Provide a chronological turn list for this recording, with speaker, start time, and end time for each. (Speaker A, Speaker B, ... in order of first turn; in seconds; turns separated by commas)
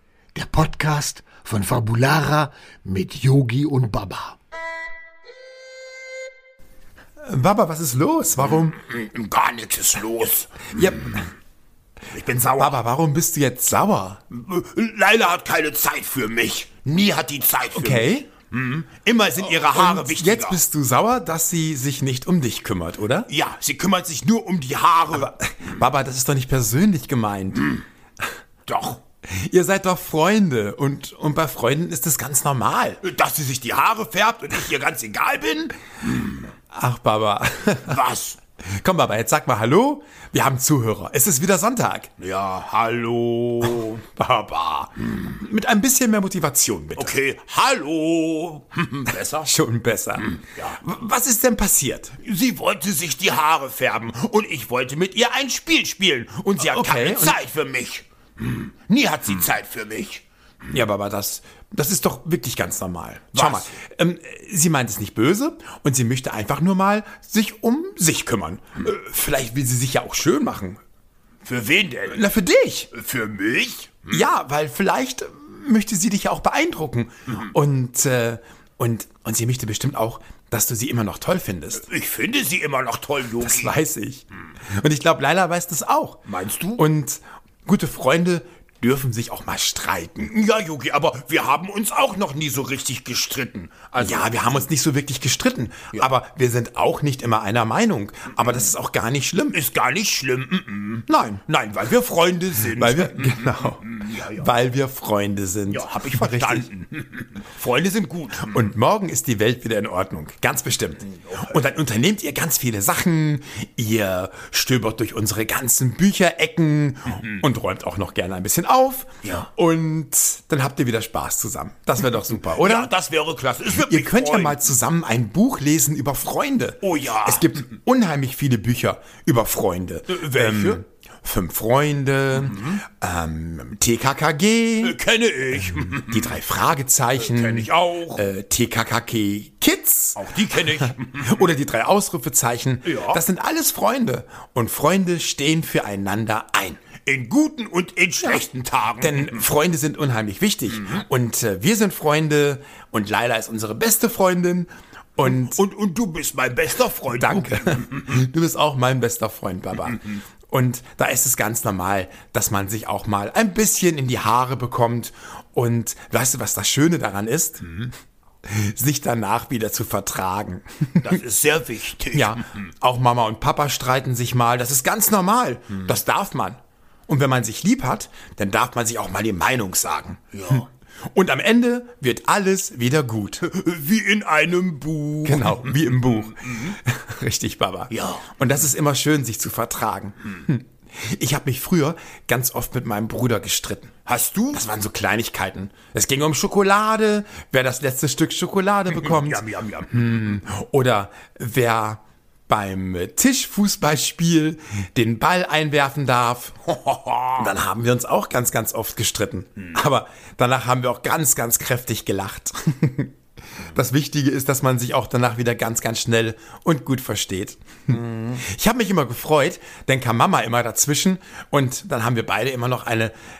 Speaker A: 0.3-4.4, Speaker B: 7.2-8.8, Speaker C: 8.5-11.2, Speaker B: 10.7-11.3, Speaker C: 12.1-12.8, Speaker B: 12.6-14.2, Speaker C: 14.3-20.6, Speaker B: 17.7-18.3, Speaker B: 19.4-23.3, Speaker C: 23.3-25.3, Speaker B: 25.1-27.7, Speaker C: 28.7-29.0, Speaker B: 29.3-33.0, Speaker C: 33.0-35.7, Speaker B: 36.7-38.0, Speaker C: 37.9-38.4, Speaker B: 38.8-42.1, Speaker C: 42.2-44.1, Speaker B: 44.2-47.1, Speaker C: 47.0-49.5, Speaker B: 49.4-52.1, Speaker C: 50.2-50.8, Speaker C: 52.2-60.2, Speaker B: 56.5-57.4, Speaker B: 60.7-70.8, Speaker C: 63.3-63.7, Speaker C: 71.4-72.2, Speaker B: 72.1-72.9, Speaker C: 72.9-74.2, Speaker B: 74.1-81.8, Speaker C: 81.8-83.8, Speaker B: 83.4-84.3, Speaker B: 84.8-86.2, Speaker C: 86.3-86.8, Speaker B: 86.8-90.3, Speaker C: 90.3-94.7, Speaker B: 94.0-99.6, Speaker C: 99.5-104.5, Speaker B: 101.1-101.4, Speaker B: 102.8-106.7, Speaker C: 105.7-108.5, Speaker B: 108.4-122.9, Speaker C: 111.1-111.6, Speaker C: 122.4-124.7, Speaker B: 123.7-135.0, Speaker C: 126.8-127.6, Speaker C: 130.1-130.8, Speaker C: 132.4-132.8, Speaker C: 134.8-136.4, Speaker B: 136.0-140.2, Speaker C: 137.2-138.2, Speaker C: 140.2-141.4, Speaker B: 141.2-146.9, Speaker C: 142.8-143.2, Speaker C: 147.0-149.4, Speaker B: 149.0-155.6, Speaker C: 150.8-151.0, Speaker C: 155.2-158.1, Speaker B: 157.1-167.9, Speaker B: 168.4-171.2, Speaker C: 171.0-172.5, Speaker B: 172.1-183.4, Speaker C: 180.3-180.7, Speaker C: 183.4-186.8, Speaker B: 185.2-193.9, Speaker C: 187.9-188.4, Speaker C: 194.1-194.7, Speaker B: 194.5-206.6, Speaker C: 198.9-199.9, Speaker C: 206.7-207.5, Speaker B: 207.4-213.1, Speaker B: 213.7-223.1, Speaker C: 218.0-218.3